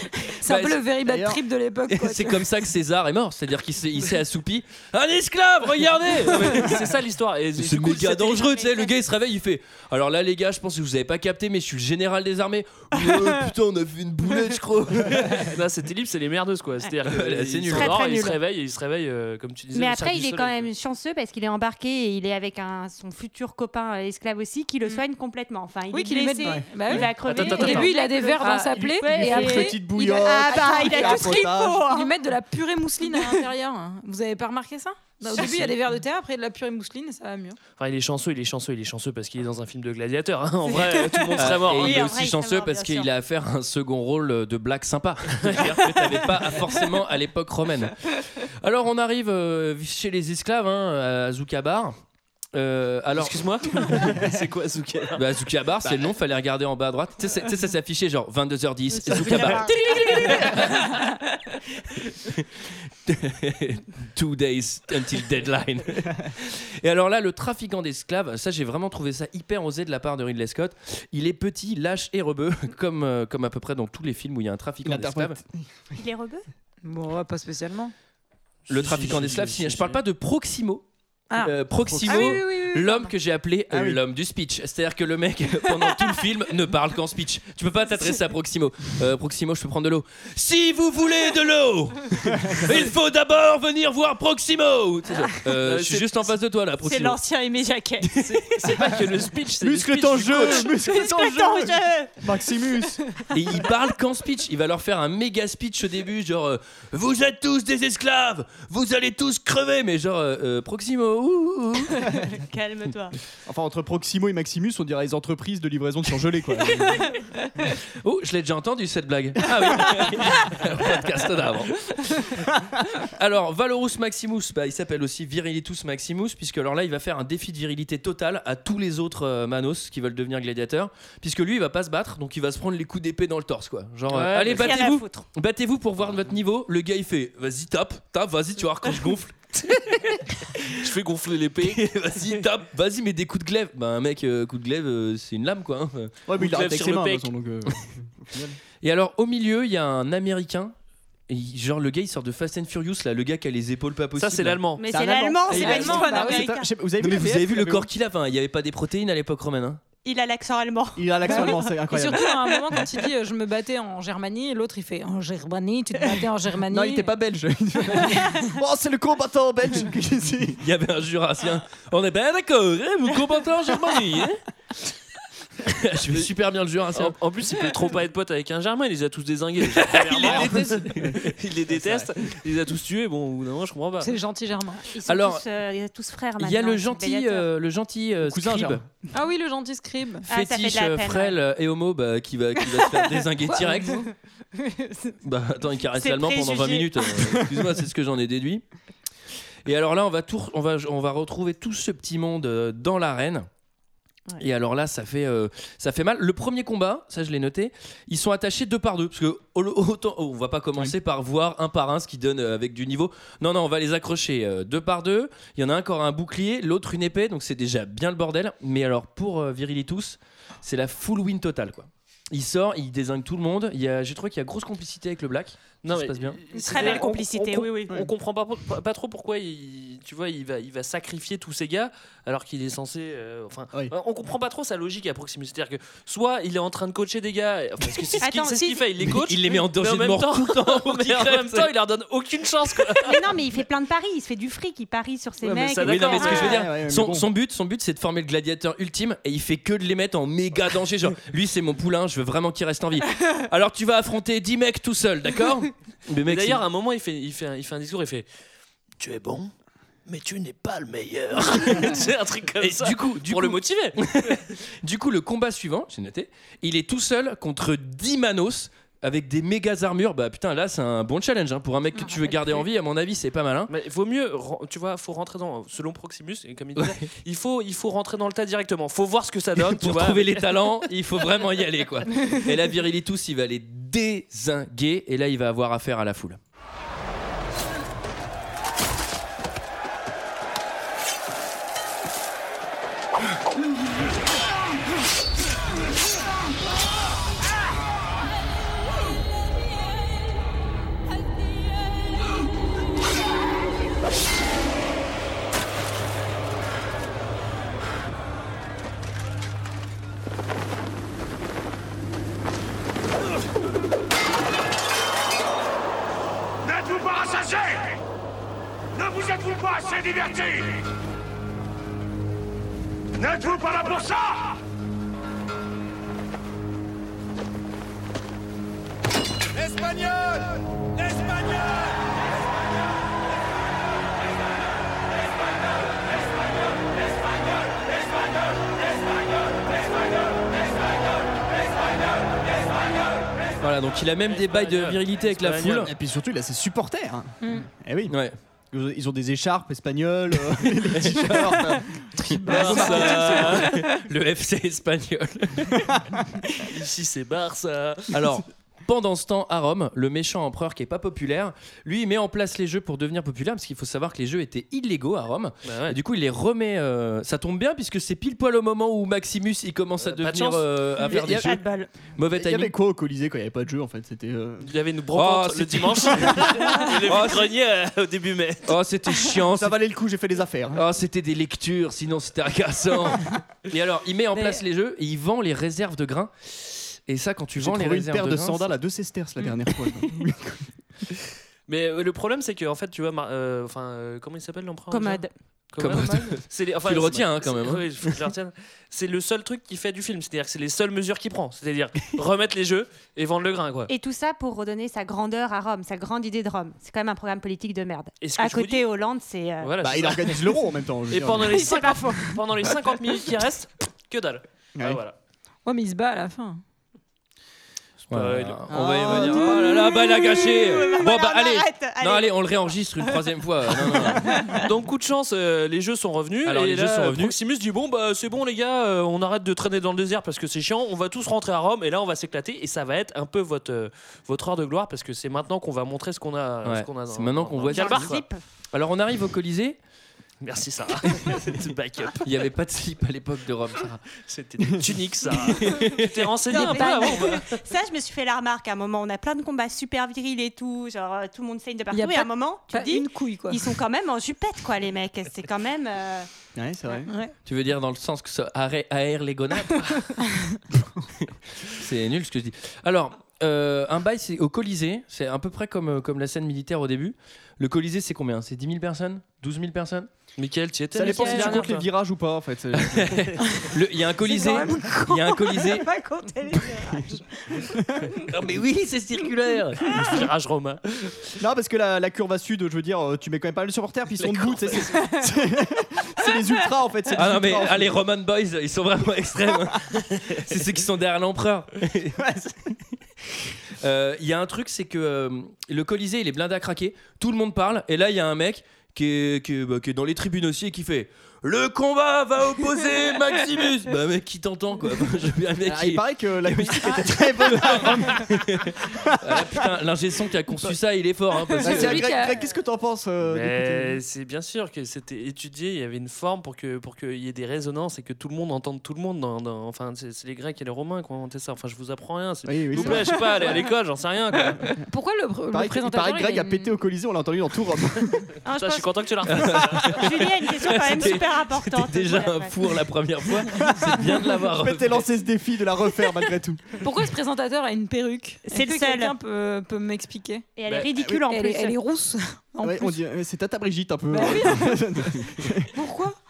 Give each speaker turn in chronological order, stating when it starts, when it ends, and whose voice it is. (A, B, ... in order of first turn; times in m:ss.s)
0:00.2-0:02.4 A
0:00.4-0:00.8 B
0:01.0-0:01.4 C
0:01.9-0:06.7 B
0:06.1-0:08.4 D
0:07.6-0:15.5 B
0:08.2-0:08.9 E
0:15.1-0:20.7 D
0:17.1-0:18.0 B
0:17.7-0:18.4 E
0:19.7-0:32.1 E
0:25.9-0:37.6 A
0:26.4-0:27.1 C
0:27.2-0:27.9 D
0:28.4-0:31.8 C
0:33.0-0:33.5 E
0:35.3-0:35.7 E
0:37.8-0:42.1 D
0:40.7-0:43.1 E
0:41.4-0:48.0 B
0:45.4-0:46.3 D
0:48.6-0:52.0 B
0:52.5-0:53.4 B
0:53.2-0:55.2 D
0:55.2-1:00.9 B
0:59.1-1:01.1 E
0:59.2-0:59.6 D
1:02.1-1:15.4 B
1:14.8-1:15.9 C
1:16.0-1:16.4 E
1:16.8-1:17.9 A
1:18.7-1:37.2 B
1:18.7-1:20.0 C
1:18.8-1:19.5 D
1:21.3-1:21.6 A
1:21.9-1:22.2 C
1:22.1-1:23.1 A
1:22.1-1:22.4 E
1:23.7-1:24.0 C
1:32.3-1:32.6 C
1:35.6-1:36.3 D
1:36.8-1:38.1 E
1:38.0-1:38.3 B
1:38.2-1:40.7 D
1:38.7-1:39.1 C
1:39.6-1:43.0 C
1:40.7-1:42.2 E
1:43.3-1:52.1 B
1:52.0-1:53.2 E
1:53.5-1:57.1 C
1:58.0-2:02.4 B
2:03.0-2:19.4 B
2:14.1-2:14.9 D
2:14.5-2:15.3 E
2:19.7-2:22.4 D
2:21.6-2:26.1 B
2:26.3-2:28.6 C
2:26.4-2:27.3 D
2:28.8-2:30.7 B
2:31.3-2:34.6 B
2:34.2-2:34.8 D
2:34.8-2:36.7 E
2:34.9-2:37.9 C
2:35.5-2:36.5 A
2:35.5-2:36.0 B
2:37.0-2:39.8 B
2:40.0-2:43.0 E
2:41.0-2:42.3 C
2:41.3-2:47.1 A
2:46.7-2:50.6 C
2:50.6-2:54.4 B
2:55.6-2:57.2 B
2:56.9-3:04.2 D
2:59.7-3:01.4 B
3:00.2-3:02.1 C
3:04.0-3:04.9 A
3:04.9-3:07.5 E
3:05.1-3:05.4 B
3:06.4-3:08.8 B
3:08.2-3:08.9 C
3:09.1-3:10.2 A
3:10.3-3:11.4 E
3:10.3-3:14.1 B
3:13.4-3:14.0 A
3:14.6-3:15.2 E
3:15.2-3:18.6 B
3:15.9-3:17.5 E
3:19.7-3:23.5 B
3:24.4-3:46.4 B
3:45.8-4:03.3 D
3:46.5-3:47.9 E
3:58.2-3:58.8 E
3:59.1-4:01.7 B
4:03.0-4:06.6 E
4:05.4-4:06.6 D
4:05.8-4:16.6 B
4:06.2-4:07.3 C
4:16.3-4:18.3 D
4:19.0-4:19.5 D
4:20.1-4:24.4 D
4:22.6-4:33.7 B
4:33.7-4:40.9 D
4:36.8-4:37.1 B
4:39.6-4:46.4 B
5:16.9-5:17.8 F
5:19.3-5:20.6 F
5:23.4-5:24.3 F
5:43.6-5:45.9 B
5:44.3-5:45.9 D
5:45.8-5:48.2 C
5:47.4-5:47.7 A
5:48.1-5:48.4 B
5:48.7-5:53.5 C
5:50.9-5:55.9 B
5:52.5-5:53.8 D
5:56.6-5:58.2 D
5:58.1-6:11.6 B
6:05.6-6:06.0 D
6:10.0-6:10.7 D
6:11.0-6:11.9 E
6:11.1-6:11.5 C
6:12.2-6:12.7 B
6:12.3-6:14.7 C
6:14.6-6:18.7 D
6:15.2-6:17.4 B
6:18.7-6:19.8 B
6:19.5-6:20.8 C
6:20.7-6:28.7 B
6:27.6-6:30.7 C
6:31.7-6:43.9 D
6:34.9-6:35.3 E
6:35.8-6:37.9 B
6:43.9-6:49.7 E
6:48.2-6:48.9 D
6:49.6-6:55.2 D
6:49.8-6:51.7 C
6:51.6-6:52.3 E
6:51.8-6:52.3 A
6:54.8-6:55.0 C
6:55.6-6:56.6 A
6:58.1-6:58.6 D
6:58.1-7:04.4 B
6:58.7-6:59.8 C
6:59.2-7:04.7 E
7:04.5-7:18.2 D
7:06.4-7:07.3 B
7:16.6-7:18.1 B
7:17.7-7:18.4 E
7:18.7-7:19.8 B
7:20.4-7:22.3 D
7:22.2-7:24.0 B
7:24.2-7:27.6 D
7:25.4-7:26.8 B
7:26.5-7:36.3 E
7:31.9-7:33.7 A
7:36.6-7:37.1 C
7:37.1-7:37.3 A
7:37.4-7:40.1 B
7:41.2-7:50.1 B
7:50.4-7:51.9 D
7:50.9-7:53.4 C
7:51.1-7:51.6 A
7:52.8-7:55.9 B
7:54.3-7:55.0 A
7:54.4-7:57.6 E
7:57.6-7:57.9 C
7:58.3-8:00.0 B
7:59.8-8:01.4 D
8:01.4-8:07.9 C
8:04.2-8:05.1 D
8:07.1-8:12.2 B
8:12.2-8:12.7 C
8:13.8-8:32.0 B
8:25.6-8:29.7 C
8:31.5-8:32.5 A
8:31.6-8:34.0 C
8:33.3-8:44.7 D
8:42.4-8:43.6 C
8:42.8-8:43.6 A
8:44.7-8:46.8 A
8:45.5-8:48.3 C
8:48.4-8:52.5 E
8:48.5-8:50.2 D
8:49.3-8:55.1 B
8:53.5-8:56.8 C
8:56.8-9:00.5 A
8:58.5-8:59.2 E
9:00.6-9:01.8 E
9:01.2-9:03.0 A
9:02.6-9:05.7 C
9:04.1-9:05.0 A
9:05.7-9:06.2 A